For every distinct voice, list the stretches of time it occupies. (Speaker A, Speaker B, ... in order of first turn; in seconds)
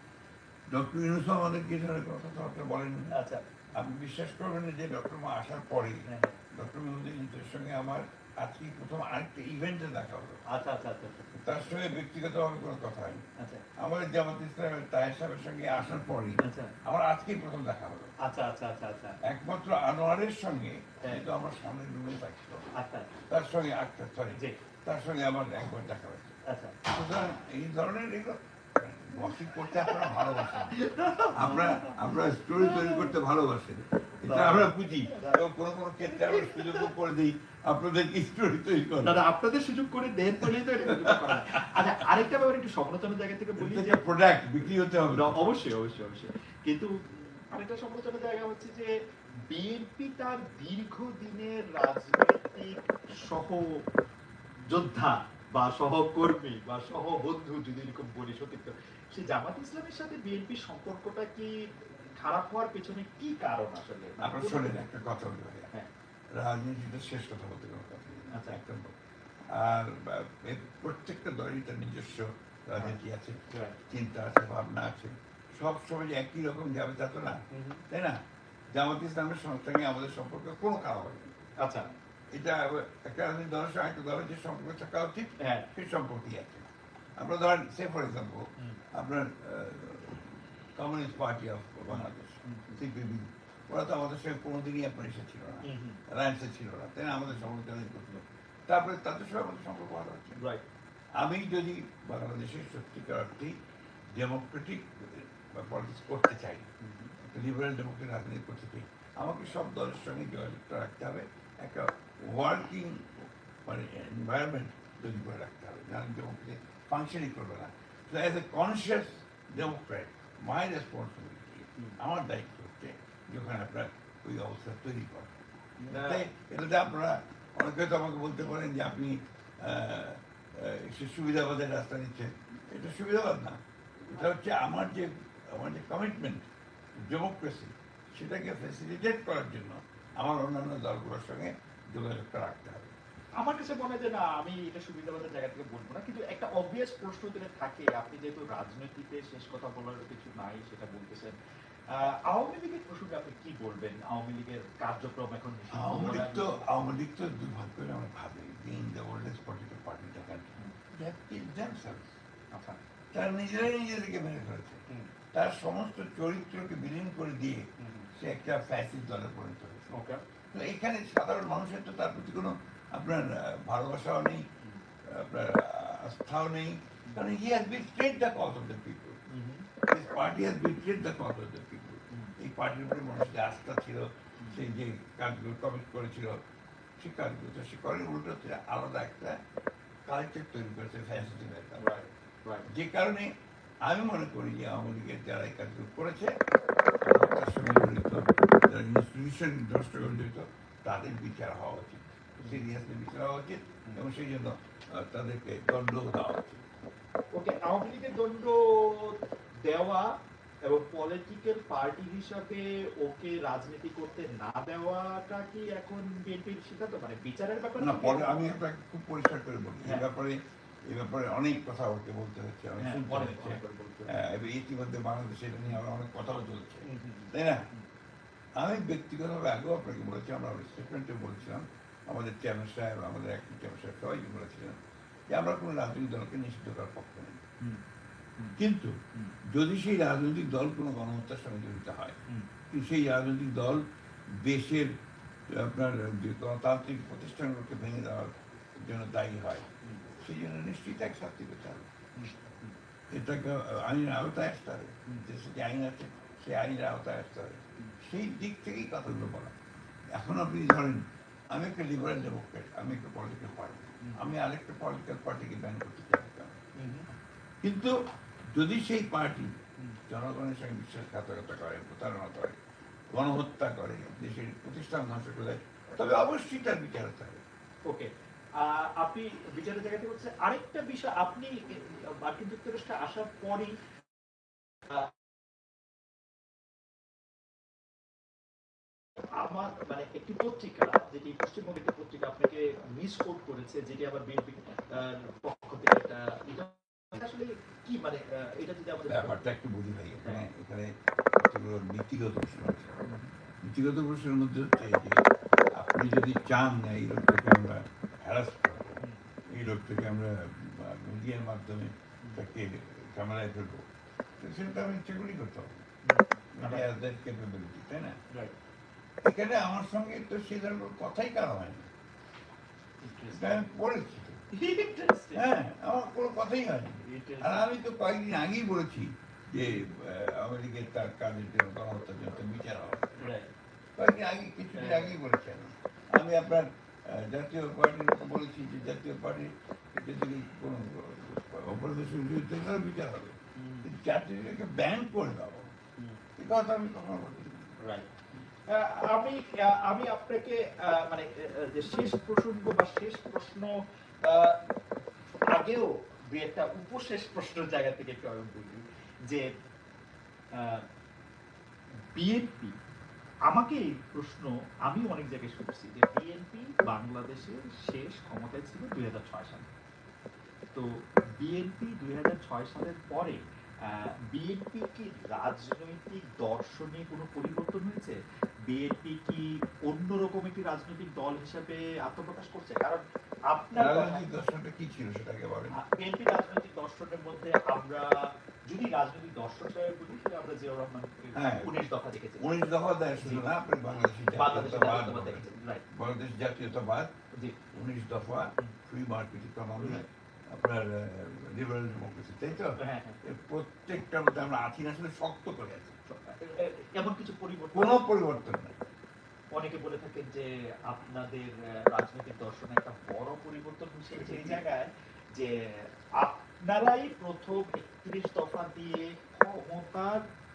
Speaker A: 0.7-3.1, 3.7-10.4, 11.3-13.2, 13.8-18.1, 19.2-22.7, 23.3-30.8, 31.3-39.2, 40.4-42.1, 43.6-45.5, 64.2-65.7, 66.3-69.0, 69.5-81.3, 82.3-100.4, 101.2-125.3, 125.9-142.9, 155.7-162.0, 163.1-164.8, 165.3-169.9, 170.5-174.5, 175.0-179.2, 179.9-186.4, 187.0-189.4, 190.1-191.9, 192.7-196.4, 197.0-206.6, 217.8-227.7, 228.6-234.8, 235.3-237.4, 238.6-242.2, 242.7-244.9, 245.5-249.7, 250.2-251.9, 253.1-259.6, 260.1-266.6, 267.6-267.9, 268.5-269.5, 270.1-272.6, 273.1-277.4, 299.1-302.9, 303.6-313.9, 314.4-315.8, 316.5-318.2, 319.2-321.9, 323.3-324.4, 325.3-333.3, 333.9-345.7, 346.4-347.7, 383.7-385.8, 391.3-391.7, 392.4-397.1, 397.7-406.0, 407.7-408.8, 414.1-414.6
Speaker B: 3.1-3.4, 6.1-6.4, 10.5-11.2, 13.4-13.6, 16.4-16.7, 18.2-19.2, 22.7-23.1, 24.3-24.6, 26.4-26.8, 29.2-33.1, 34.2-35.4, 36.0-36.9, 39.0-44.1, 45.1-53.6, 54.7-64.9, 68.3-68.6, 73.5-73.8, 77.5-77.8, 81.6-81.9, 85.4-85.7, 91.9-92.8, 95.6-96.0, 100.3-100.6, 106.8-107.2, 125.8-126.3, 143.4-151.4, 151.9-156.6, 162.5-162.8, 167.8-168.1, 169.9-170.2, 179.3-179.7, 182.1-182.3, 184.4-184.6, 191.8-192.7, 207.3-218.5, 222.8-224.2, 226.8-227.8, 252.2-252.8, 266.8-267.1, 277.9-283.7, 284.9-285.1, 289.3-299.4, 303.1-303.3, 316.0-316.9, 323.0-323.6, 324.5-325.5, 327.0-327.7, 333.2-333.5, 334.7-335.1, 343.6-343.9, 346.0-346.2, 347.8-348.1, 348.7-354.6, 355.5-359.5, 360.5-360.8, 362.1-362.8, 363.5-369.7, 370.7-384.3, 385.7-392.4, 393.2-393.5, 394.3-395.8, 402.8-403.2, 406.1-408.1, 409.5-420.2